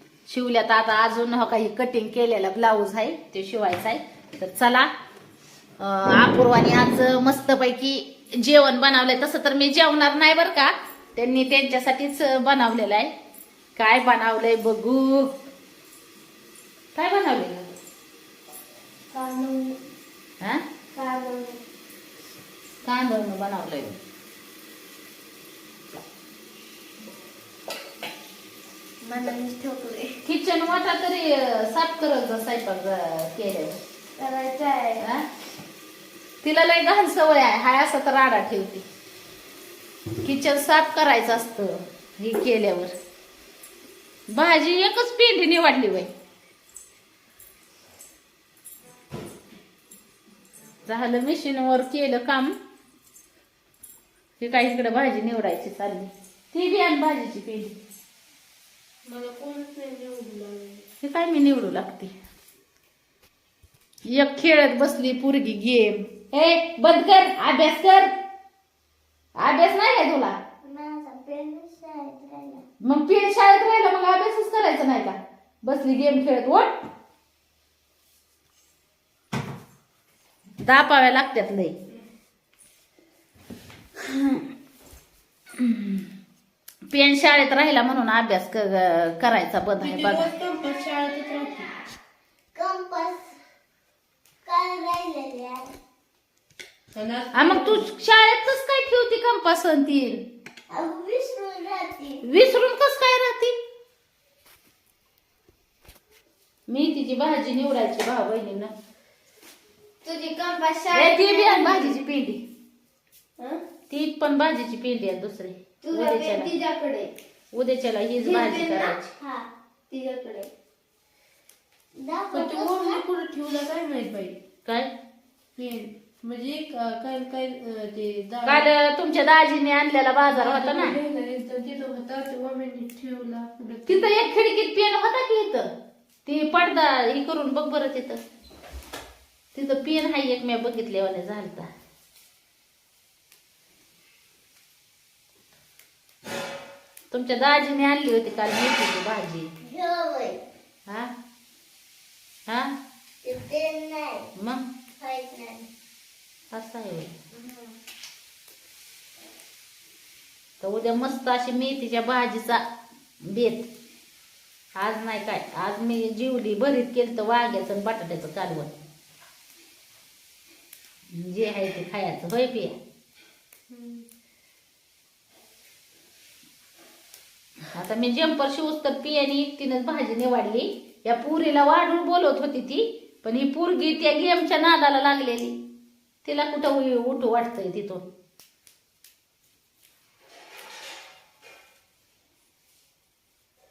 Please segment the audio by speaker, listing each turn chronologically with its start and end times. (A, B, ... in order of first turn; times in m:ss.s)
0:00.3-0:04.9 A
0:05.8-0:13.1 A
0:13.8-0:15.3 A
0:17.0-0:17.7 A
0:19.2-0:19.7 B
0:21.0-0:21.6 B
0:22.8-0:24.0 A
0:29.1-0:30.1 B
0:30.2-0:33.8 A
0:34.2-0:35.0 B
0:35.0-0:35.2 A
0:36.4-0:38.8 A
0:40.2-0:42.9 A
0:44.3-0:46.1 A
0:50.8-0:52.6 A
0:54.4-0:57.8 A
0:59.0-1:00.9 C
1:01.0-1:02.1 A
1:04.1-1:08.1 A
1:09.4-1:10.4 A
1:10.6-1:12.6 B
1:12.8-1:16.7 A
1:20.6-1:21.8 A
1:24.0-1:24.4 A
1:25.6-1:26.1 A
1:26.9-1:30.3 A
1:29.8-1:31.7 C
1:32.5-1:33.3 B
1:34.4-1:35.7 B
1:37.0-1:37.8 C
1:37.3-1:40.2 A
1:40.7-1:42.2 B
1:42.2-1:43.6 A
1:46.7-1:48.7 A
1:50.0-1:51.8 C
1:50.9-1:52.4 A
1:53.9-1:56.5 A
1:55.8-1:57.1 C
1:57.5-1:59.0 A
1:58.2-1:58.7 C
1:58.6-1:59.5 B
1:59.9-2:00.5 C
2:02.0-2:03.0 B
2:02.3-2:04.4 C
2:05.6-2:08.7 C
2:08.5-2:11.0 A
2:10.3-2:14.1 C
2:13.9-2:15.7 A
2:16.2-2:18.2 A
2:19.5-2:21.7 A
2:27.1-2:29.5 A
2:29.6-2:30.4 B
2:33.2-2:34.3 B
2:34.4-2:34.6 A
2:35.0-2:35.7 B
2:36.5-2:37.1 A
2:37.4-2:37.7 B
2:40.6-2:42.6 A
2:43.2-2:43.7 A
2:44.8-2:48.7 A
2:51.1-2:52.8 A
2:53.7-2:54.1 C
2:57.8-3:05.5 A
3:06.2-3:08.0 A